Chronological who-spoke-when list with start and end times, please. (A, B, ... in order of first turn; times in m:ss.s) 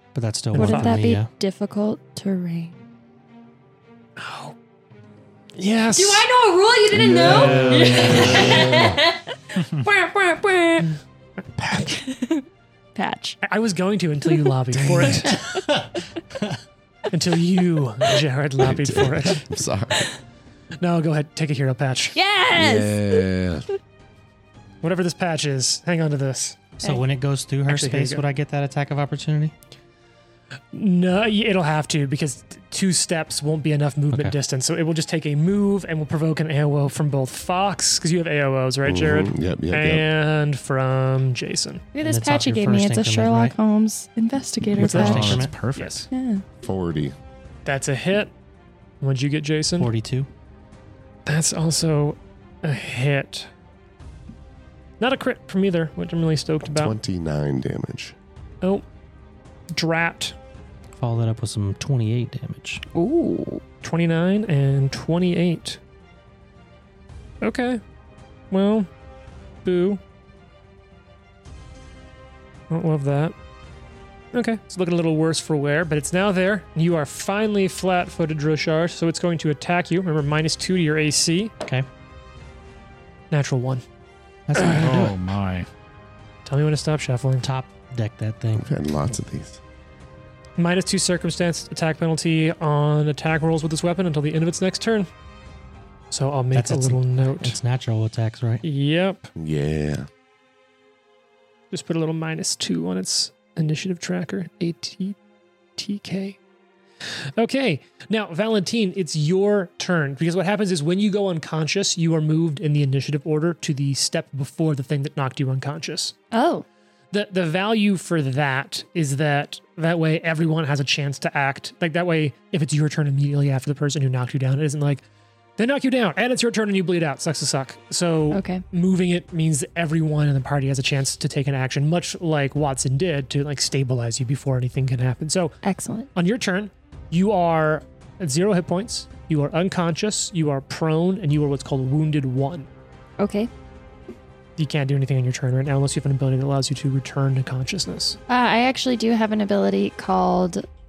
0:00.1-0:01.3 A
0:00.5-0:02.8 B
0:00.6-0:01.0 C
0:04.2-0:04.5 C
0:05.6-0:06.2 C
0:05.9-0:11.0 B
0:06.9-0:09.0 D
0:07.1-0:08.6 E
0:11.6-0:11.9 C
0:11.9-0:12.4 B
0:12.9-0:13.4 B
0:13.4-0:15.4 C
0:14.7-0:15.5 D
0:17.1-0:19.4 C
0:18.6-0:20.1 D
0:20.8-0:22.2 C
0:22.1-0:23.3 B
0:22.5-0:23.6 D
0:24.8-0:26.6 C
0:26.8-0:29.5 A
0:27.7-0:28.2 C
0:30.7-0:41.8 C
0:34.1-0:34.4 A
0:38.8-0:40.0 D
0:41.9-0:45.4 B
0:42.0-0:43.5 A
0:44.8-0:46.0 C
0:44.8-0:45.5 A
0:44.8-0:46.0 E
0:46.1-0:46.4 B
0:46.6-0:47.2 D
0:47.6-0:48.3 C
0:49.0-0:49.9 C
0:49.8-0:50.3 A
0:51.2-0:53.5 C
0:55.0-0:57.0 C
0:56.7-0:58.1 D
0:59.7-1:00.4 C
1:00.9-1:02.8 A
1:02.9-1:03.6 B
1:03.8-1:05.8 C
1:07.4-1:07.8 C
1:08.5-1:08.9 C
1:09.6-1:10.0 C
1:12.7-1:13.3 C
1:14.3-1:21.5 C
1:23.3-1:23.8 C
1:24.5-1:25.1 A
1:24.6-1:25.1 C
1:24.7-1:25.7 E
1:26.4-1:27.5 C
1:27.4-1:28.7 A
1:28.6-1:29.6 D
1:30.6-1:35.1 C
1:36.1-1:37.6 C
1:36.5-1:38.6 A
1:38.6-1:39.3 C
1:39.4-1:40.1 D
1:41.7-1:45.2 C
1:45.8-1:46.4 C
1:47.4-1:56.2 C
1:56.3-1:56.6 B
1:57.1-2:05.0 C
2:05.6-2:15.6 C
2:08.3-2:08.6 B
2:15.6-2:16.1 B
2:16.1-2:22.7 C
2:23.2-2:23.5 B
2:24.6-2:28.2 C
2:28.3-2:30.6 B